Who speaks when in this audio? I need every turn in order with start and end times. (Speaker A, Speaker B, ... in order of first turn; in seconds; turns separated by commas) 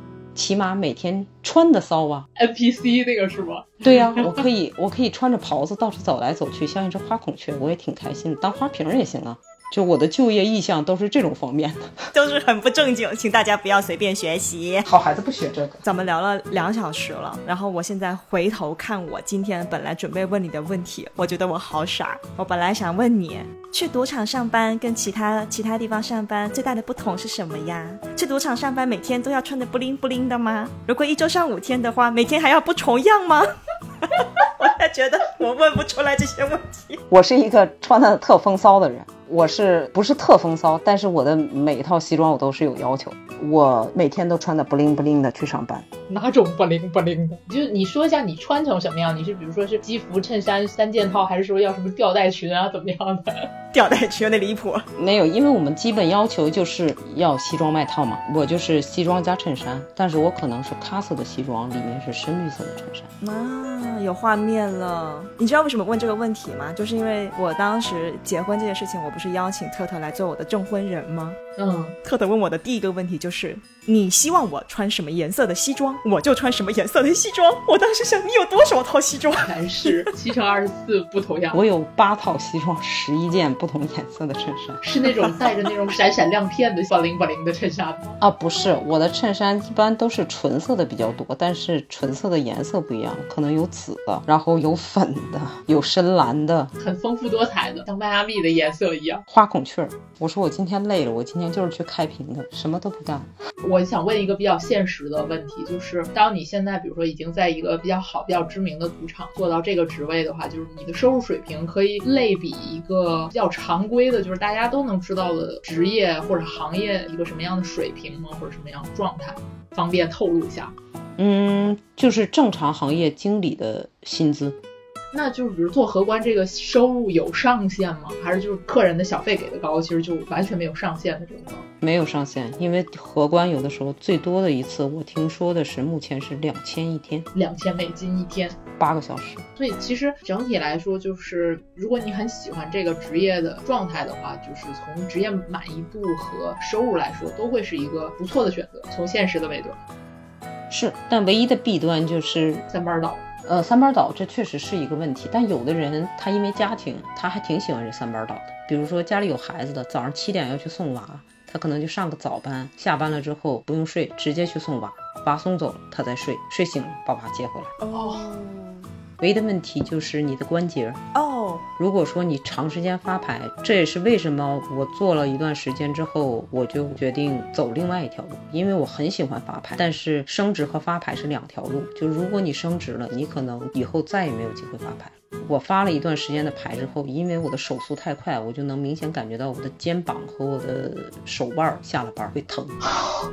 Speaker A: 0.3-2.3, Speaker B: 2.4-4.4, Speaker A: 3.8-12.1, Speaker C: 12.1-14.9, Speaker A: 14.8-15.8, Speaker C: 15.8-33.5, Speaker C: 34.0-37.0, Speaker A: 37.1-45.9, Speaker B: 46.1-53.5, Speaker C: 53.7-54.9, Speaker A: 55.0-63.1, Speaker C: 63.2-71.4, Speaker B: 71.6-72.0, Speaker C: 72.0-80.0, Speaker B: 79.4-81.6, Speaker A: 81.5-84.8, Speaker B: 84.8-88.2, Speaker A: 88.2-96.7, Speaker B: 96.8-99.2, Speaker A: 99.3-103.3, Speaker B: 103.6-120.8, Speaker A: 121.2-124.6, Speaker B: 125.1-131.7, Speaker A: 131.8-137.3, Speaker B: 137.3-138.6, Speaker A: 138.8-139.5, Speaker B: 139.6-149.8, Speaker A: 150.7-152.7, Speaker B: 152.7-153.2, Speaker A: 153.4-167.8, Speaker C: 167.8-168.9, Speaker B: 167.9-168.3, Speaker A: 169.2-171.0, Speaker C: 171.1-171.7, Speaker A: 171.8-192.8